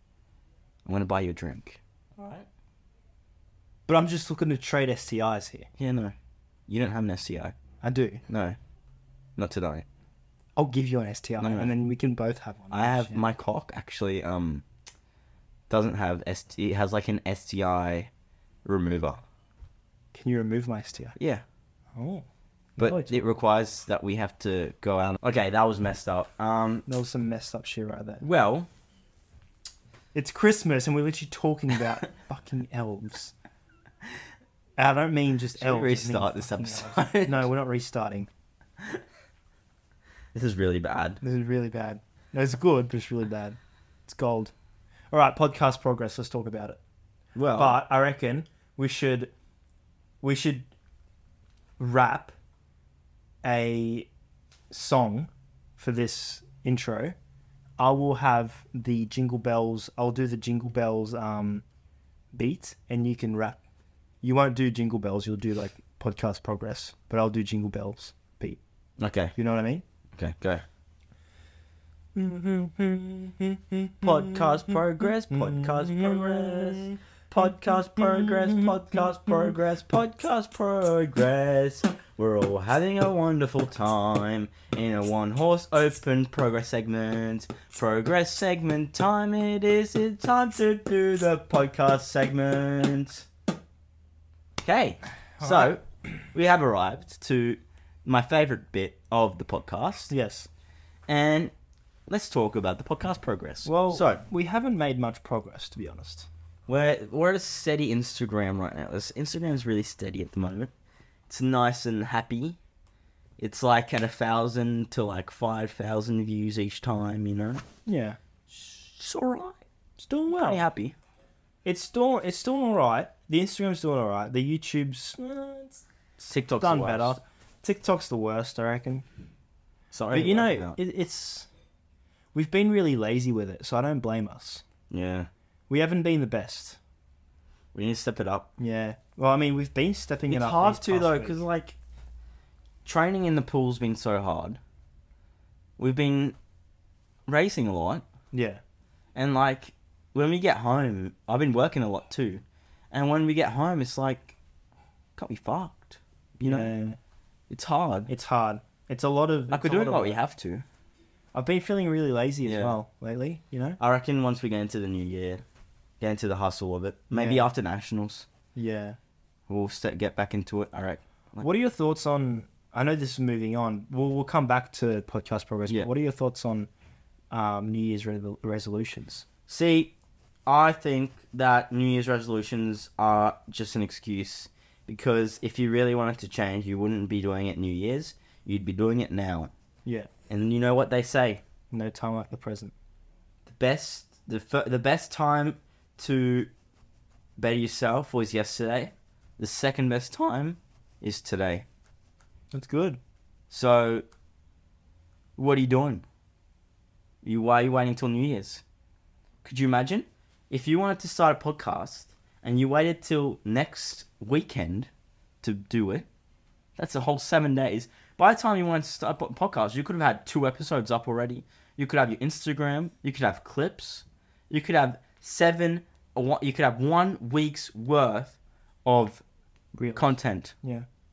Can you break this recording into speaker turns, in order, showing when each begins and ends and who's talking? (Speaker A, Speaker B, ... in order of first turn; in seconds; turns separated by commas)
Speaker A: 0.8-2.5, Speaker B: 3.9-5.7, Speaker A: 5.8-6.1, Speaker A: 6.7-7.5, Speaker B: 7.8-8.2, Speaker A: 8.3-8.6, Speaker A: 9.4-9.8, Speaker B: 10.6-13.2, Speaker A: 11.4-11.7, Speaker A: 12.7-14.6, Speaker A: 15.7-18.1, Speaker A: 18.6-19.2, Speaker B: 20.1-21.1, Speaker A: 21.2-21.4, Speaker B: 21.9-22.2, Speaker B: 22.8-23.1, Speaker A: 22.8-26.9, Speaker B: 26.9-28.2, Speaker A: 28.2-28.7, Speaker B: 30.1-33.3, Speaker B: 34.8-38.3, Speaker A: 35.5-37.5, Speaker A: 40.3-41.2, Speaker B: 41.2-44.5, Speaker B: 45.1-46.8, Speaker A: 47.4-47.8, Speaker B: 47.5-49.3, Speaker B: 50.2-50.7, Speaker B: 51.8-52.3, Speaker B: 53.4-54.1, Speaker B: 54.7-57.1, Speaker B: 57.8-61.6, Speaker B: 62.3-63.6, Speaker B: 64.2-68.6, Speaker A: 69.0-69.3, Speaker B: 69.3-69.8, Speaker A: 70.2-70.6, Speaker B: 72.1-79.5, Speaker A: 74.0-93.2, Speaker A: 94.6-100.1, Speaker B: 95.4-95.7, Speaker B: 100.1-100.5, Speaker A: 101.1-101.5, Speaker A: 102.1-104.2, Speaker B: 103.6-106.3, Speaker A: 106.7-110.7, Speaker A: 111.3-112.6, Speaker A: 113.4-117.6, Speaker B: 117.8-118.2, Speaker A: 118.6-119.6, Speaker B: 120.0-120.6, Speaker A: 120.3-120.9, Speaker B: 121.6-125.8, Speaker A: 126.2-127.2, Speaker B: 126.6-129.1, Speaker A: 129.9-130.8, Speaker B: 130.1-131.5, Speaker B: 132.3-134.6, Speaker A: 134.9-135.3, Speaker B: 135.7-136.8, Speaker A: 137.7-138.5, Speaker B: 138.6-141.4, Speaker A: 140.3-141.8, Speaker A: 142.8-144.6, Speaker A: 145.8-146.3, Speaker A: 147.3-148.0, Speaker B: 148.3-148.6, Speaker A: 149.1-154.3, Speaker A: 155.2-156.7, Speaker B: 156.4-157.0, Speaker A: 157.5-158.1, Speaker B: 158.1-160.2, Speaker A: 159.5-160.6, Speaker B: 161.3-163.8, Speaker A: 162.4-162.8, Speaker A: 163.8-165.4, Speaker A: 166.0-168.2, Speaker B: 167.1-167.4, Speaker B: 168.5-169.0, Speaker A: 169.5-171.4, Speaker B: 171.4-176.7, Speaker B: 177.3-179.3, Speaker A: 179.5-179.9, Speaker A: 180.5-189.5, Speaker B: 189.8-190.1, Speaker A: 190.3-191.4, Speaker B: 191.7-192.7, Speaker A: 193.4-196.5, Speaker A: 197.4-201.7, Speaker B: 202.5-203.0, Speaker A: 203.5-204.1, Speaker A: 205.4-206.0, Speaker A: 207.2-208.6, Speaker A: 209.4-214.9, Speaker A: 215.4-216.1, Speaker A: 216.8-229.2, Speaker B: 229.7-230.1, Speaker A: 229.9-230.5